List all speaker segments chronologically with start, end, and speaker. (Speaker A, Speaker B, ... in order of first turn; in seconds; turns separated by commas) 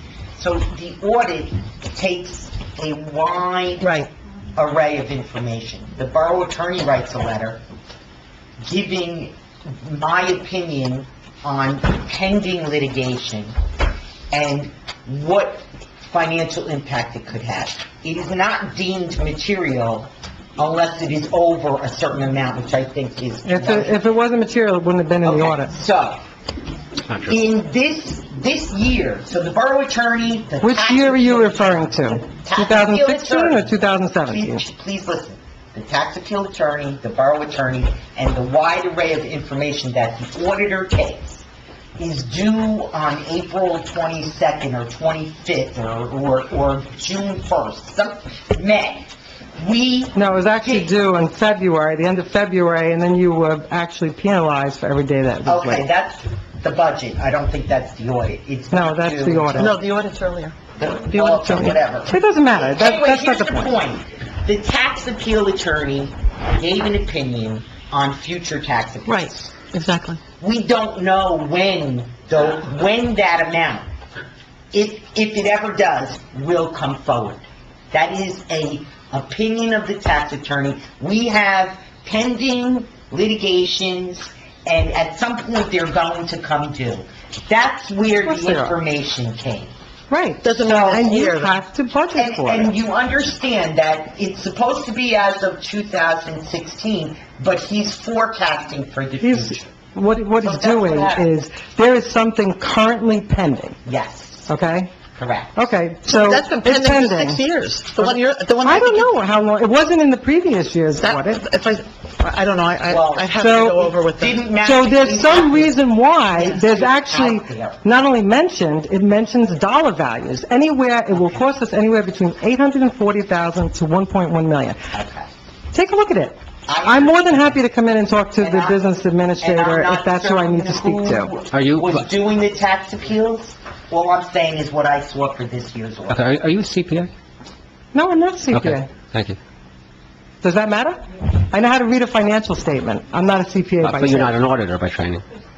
Speaker A: 0.4-4.0, Speaker A: 4.6-7.6, Speaker A: 8.6-13.5, Speaker A: 14.3-24.0, Speaker B: 23.4-25.7, Speaker A: 25.2-26.2, Speaker A: 27.3-41.5, Speaker B: 30.6-34.6, Speaker A: 42.0-50.9, Speaker B: 50.1-55.8, Speaker A: 55.5-59.8, Speaker B: 58.7-59.8, Speaker C: 59.6-60.5, Speaker A: 60.8-69.6, Speaker C: 61.1-61.7, Speaker B: 61.5-63.8, Speaker C: 69.1-70.2, Speaker A: 70.4-73.9, Speaker A: 74.7-89.7, Speaker B: 88.2-88.8, Speaker B: 90.1-92.7, Speaker C: 90.4-91.6, Speaker A: 90.7-91.1, Speaker A: 92.2-99.7, Speaker B: 99.2-103.8, Speaker A: 100.4-101.3, Speaker A: 103.9-104.5, Speaker B: 104.5-104.9, Speaker A: 105.2-105.7, Speaker B: 105.6-107.4, Speaker C: 106.0-109.2, Speaker B: 108.0-111.5, Speaker C: 111.0-114.4, Speaker A: 112.8-113.4, Speaker B: 113.3-114.0, Speaker A: 114.1-117.8, Speaker B: 114.6-124.8, Speaker A: 124.9-125.3, Speaker B: 125.7-131.3, Speaker A: 126.7-127.5, Speaker A: 128.4-128.8, Speaker A: 129.4-136.3, Speaker D: 131.5-132.0, Speaker D: 136.1-137.1, Speaker B: 137.9-138.9, Speaker D: 138.5-139.4, Speaker B: 140.4-144.3, Speaker D: 143.8-145.2